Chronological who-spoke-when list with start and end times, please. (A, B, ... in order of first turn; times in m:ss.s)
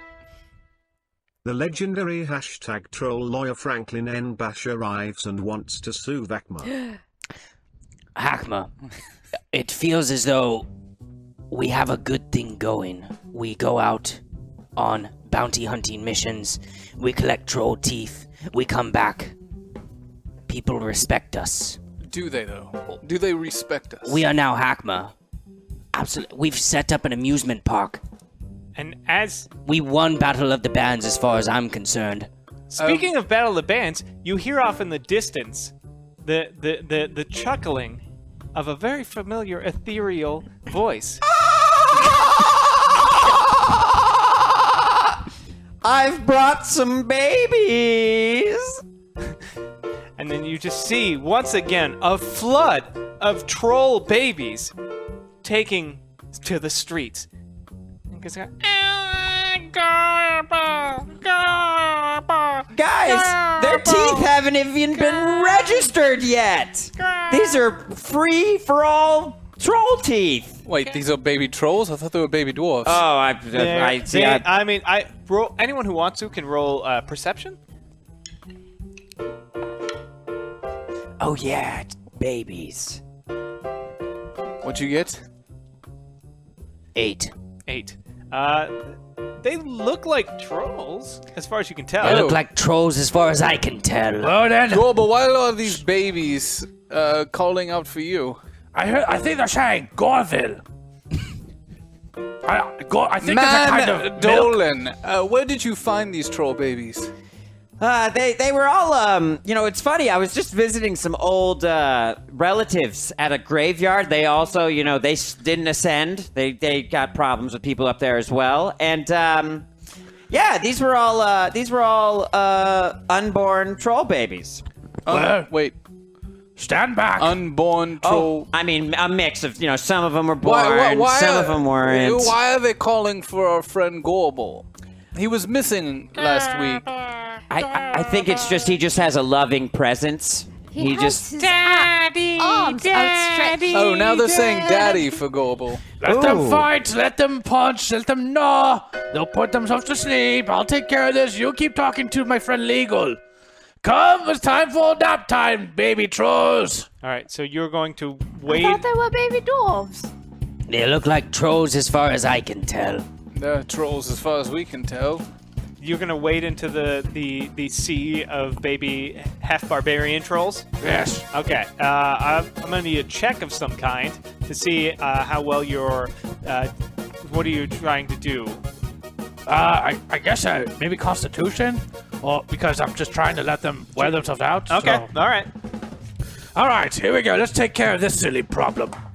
0:01.4-0:06.8 A
0:08.2-0:08.7 B
0:09.5-0:10.7 B
0:11.5-0:14.2 B
0:14.8-0:19.4 B
0:20.5-0:21.8 B
0:22.0-0:24.2 C
0:24.0-0:25.1 B
0:25.9-0:28.0 B
0:28.8-0:29.5 D
0:29.6-0:32.3 B
0:32.7-0:35.7 D
0:32.8-0:33.1 C
0:36.2-0:41.2 D
0:41.3-0:45.1 E
0:45.8-0:48.8 E
0:50.2-0:54.7 D
0:55.4-0:57.3 D
0:58.1-1:04.3 D
1:02.7-1:10.6 E
1:04.9-1:05.9 D
1:07.0-1:07.6 D
1:10.6-1:13.0 C
1:12.8-1:14.4 E
1:13.5-1:17.6 D
1:21.2-1:23.0 B
1:24.6-1:25.2 C
1:27.0-1:27.3 B
1:27.7-1:32.3 D
1:32.0-1:34.3 B
1:32.0-1:32.4 C
1:34.2-1:35.0 F
1:34.7-1:38.4 C
1:38.7-1:40.6 F
1:42.4-1:44.6 F
1:43.2-1:47.1 C
1:47.8-1:59.7 E
2:00.3-2:04.6 E
2:05.0-2:05.8 C
2:05.1-2:05.5 F
2:06.6-2:07.4 F
2:07.2-2:08.5 C
2:08.0-2:12.4 E
2:10.4-2:16.9 C
2:17.5-2:21.2 E
2:20.7-2:25.2 G
2:21.9-2:22.3 D
2:23.7-2:25.9 C
2:26.0-2:33.2 F
2:26.0-2:26.7 E
2:33.8-2:36.9 F
2:37.0-2:38.8 D
2:38.5-2:40.1 G
2:40.7-2:43.0 B
2:43.3-2:45.3 C
2:45.8-2:50.7 D
2:50.8-2:51.3 F
2:51.3-2:58.6 D
2:59.5-3:05.1 F
3:04.0-3:05.5 D
3:06.6-3:09.0 F